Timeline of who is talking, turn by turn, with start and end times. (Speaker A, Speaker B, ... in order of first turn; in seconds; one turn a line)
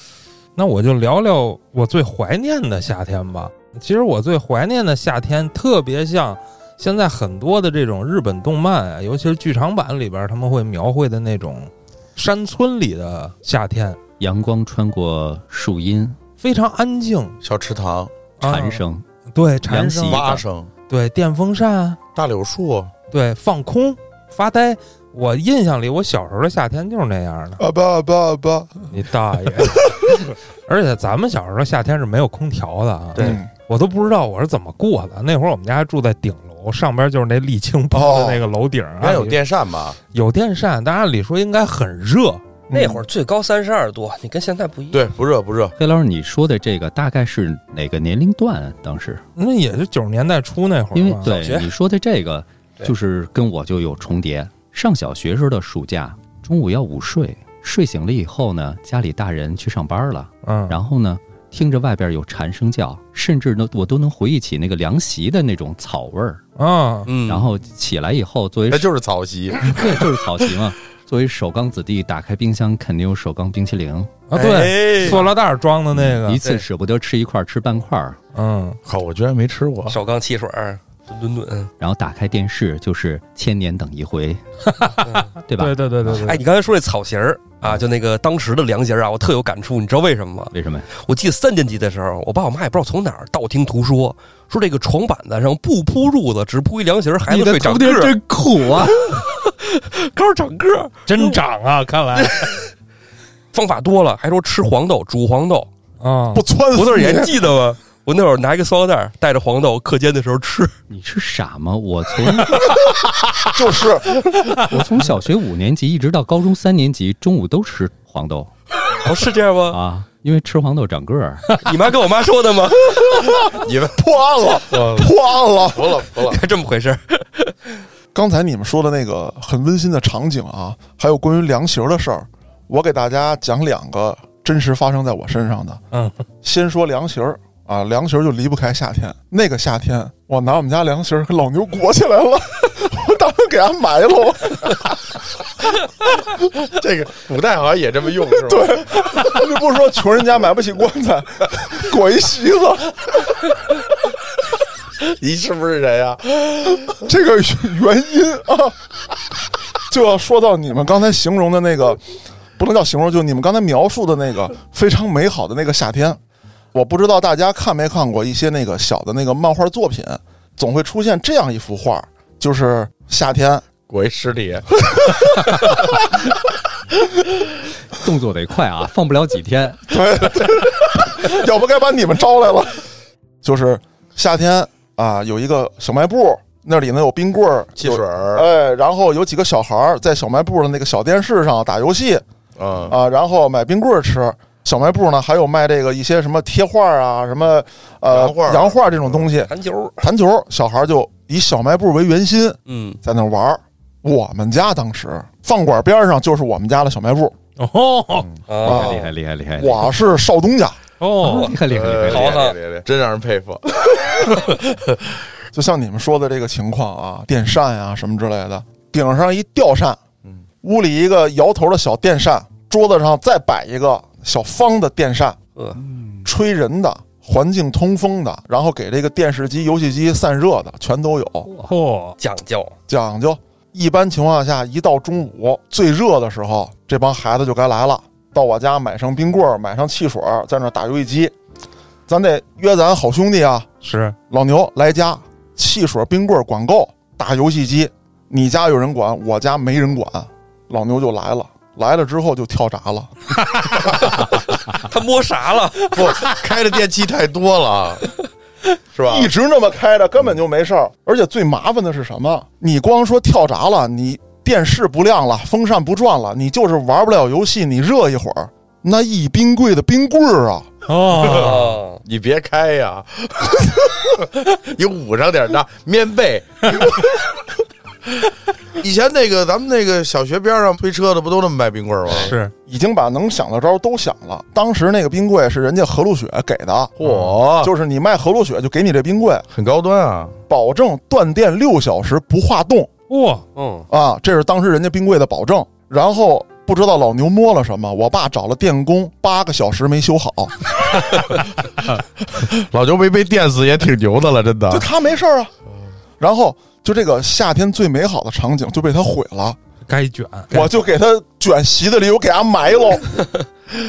Speaker A: 0.6-14.0
Speaker B: 14.2-16.2
Speaker A: 16.4-17.4
Speaker C: 17.4-18.1
Speaker A: 18.4-18.8
Speaker B: 18.4-19.0
Speaker A: 19.3-20.3
Speaker B: 19.6-20.4
Speaker C: 20.1-20.7
Speaker A: 20.9-22.0
Speaker C: 22.1-22.9
Speaker A: 23.1-27.6
Speaker D: 27.6-28.9
Speaker A: 28.9-39.4
Speaker D: 33.2-33.5
Speaker D: 37.9-38.4
Speaker C: 39.0-40.0
Speaker A: 40.1-42.4
Speaker D: 42.7-43.0
Speaker E: 42.7-45.0
Speaker C: 44.9-45.7
Speaker B: 45.8-49.2
Speaker A: 49.4-51.4
Speaker B: 50.9-66.4
Speaker E: 51.2-51.7
Speaker A: 60.4-60.8
Speaker A: 66.6-67.1
Speaker E: 67.1-67.5
Speaker B: 67.2-68.9
Speaker C: 68.7-69.7
Speaker B: 69.6-74.2
Speaker A: 74.3-76.4
Speaker C: 74.3-75.2
Speaker E: 74.3-75.2
Speaker B: 75.9-78.2
Speaker A: 78.3-78.8
Speaker C: 78.8-80.0
Speaker E: 79.9-81.7
Speaker B: 81.8-84.4
Speaker A: 84.7-86.4
Speaker E: 85.0-85.3
Speaker B: 85.5-86.3
Speaker E: 86.1-98.1
Speaker B: 90.5-90.9
Speaker B: 97.3-99.0
Speaker E: 98.9-101.3
Speaker A: 101.1-102.5
Speaker E: 102.2-102.5
Speaker E: 103.5-105.7
Speaker A: 106.0-106.4
Speaker D: 106.3-107.4
Speaker E: 106.7-110.7
Speaker B: 110.9-112.7
Speaker D: 113.5-114.5
Speaker B: 114.6-118.5
Speaker E: 119.0-119.8
Speaker B: 119.7-121.6
Speaker E: 121.6-123.3
Speaker D: 123.0-126.0
Speaker C: 123.5-124.0
Speaker C: 124.7-126.4
Speaker E: 126.2-127.5
Speaker D: 128.1-135.8
Speaker D: 136.4-144.9
Speaker C: 146.6-149.1
Speaker D: 148.4-153.2
Speaker C: 155.0-156.9
Speaker D: 156.9-158.8
Speaker D: 159.9-162.0
Speaker D: 162.6-166.2
Speaker D: 166.7-173.6
Speaker C: 173.9-174.8
Speaker D: 175.0-175.2
Speaker B: 177.9-179.9
Speaker D: 179.9-182.8
Speaker D: 183.4-192.2
Speaker C: 187.8-188.5
Speaker C: 192.6-192.9
Speaker D: 192.8-207.3
Speaker C: 198.1-199.2
Speaker E: 199.5-200.0
Speaker E: 202.7-203.0
Speaker A: 207.6-208.3
Speaker E: 208.5-209.1
Speaker B: 208.6-209.9
Speaker D: 208.6-209.1
Speaker D: 209.6-210.8
Speaker A: 211.0-211.5
Speaker B: 211.2-212.4
Speaker E: 211.3-211.5
Speaker C: 211.6-215.0
Speaker E: 212.1-212.6
Speaker D: 215.5-220.0
Speaker D: 220.6-225.4
Speaker B: 225.8-226.2
Speaker D: 226.2-231.5
Speaker A: 231.6-232.2
Speaker E: 232.2-232.7
Speaker D: 232.9-241.3
Speaker D: 242.1-243.7
Speaker A: 243.8-244.2
Speaker D: 244.3-253.1
Speaker E: 254.2-256.1
Speaker C: 255.9-258.2
Speaker C: 258.9-259.3
Speaker D: 259.1-270.7
Speaker A: 270.9-271.7
Speaker C: 271.1-277.2
Speaker E: 271.3-272.0
Speaker C: 278.8-282.3
Speaker A: 282.2-282.5
Speaker D: 282.6-289.4
Speaker C: 287.0-287.7
Speaker C: 289.5-290.3
Speaker D: 290.5-292.9
Speaker A: 293.1-293.4
Speaker E: 293.6-293.9
Speaker D: 293.9-300.5
Speaker C: 302.3-304.9
Speaker D: 304.7-305.5
Speaker D: 306.2-309.6
Speaker A: 309.9-310.7
Speaker D: 310.5-313.3